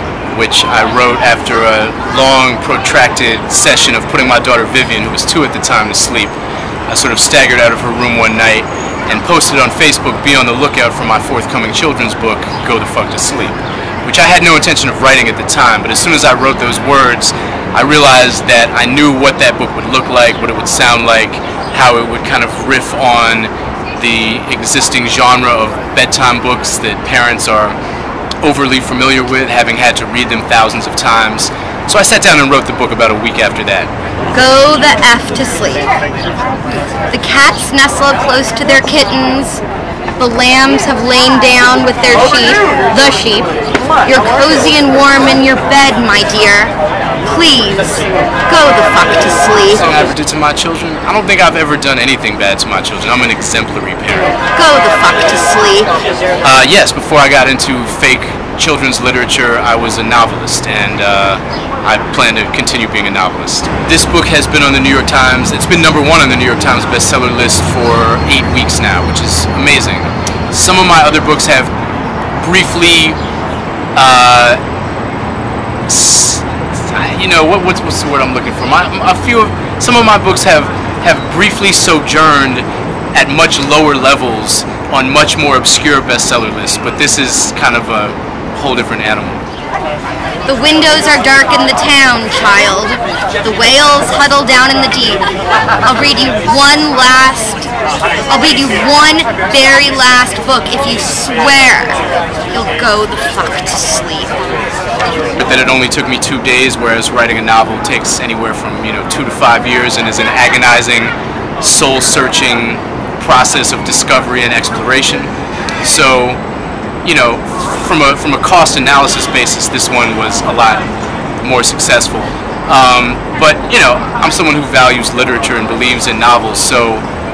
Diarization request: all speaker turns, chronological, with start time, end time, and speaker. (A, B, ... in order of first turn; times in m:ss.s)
0:00.3-0:06.3 A
0:06.9-0:27.8 A
0:28.4-0:33.9 A
0:34.3-0:35.9 B
0:37.1-0:39.6 B
0:40.2-0:43.5 B
0:44.0-0:49.8 B
0:49.8-0:54.4 A
0:54.5-0:55.9 B
0:56.4-1:11.7 A
1:12.4-1:13.2 A
1:14.0-1:14.6 A
1:15.9-1:29.4 A
1:30.4-1:35.2 B
1:35.8-1:37.7 B
1:38.3-1:42.0 B
1:42.5-1:44.3 B
1:45.4-1:55.3 A
1:55.8-1:56.4 A
1:57.0-2:00.9 A
2:01.4-2:07.0 A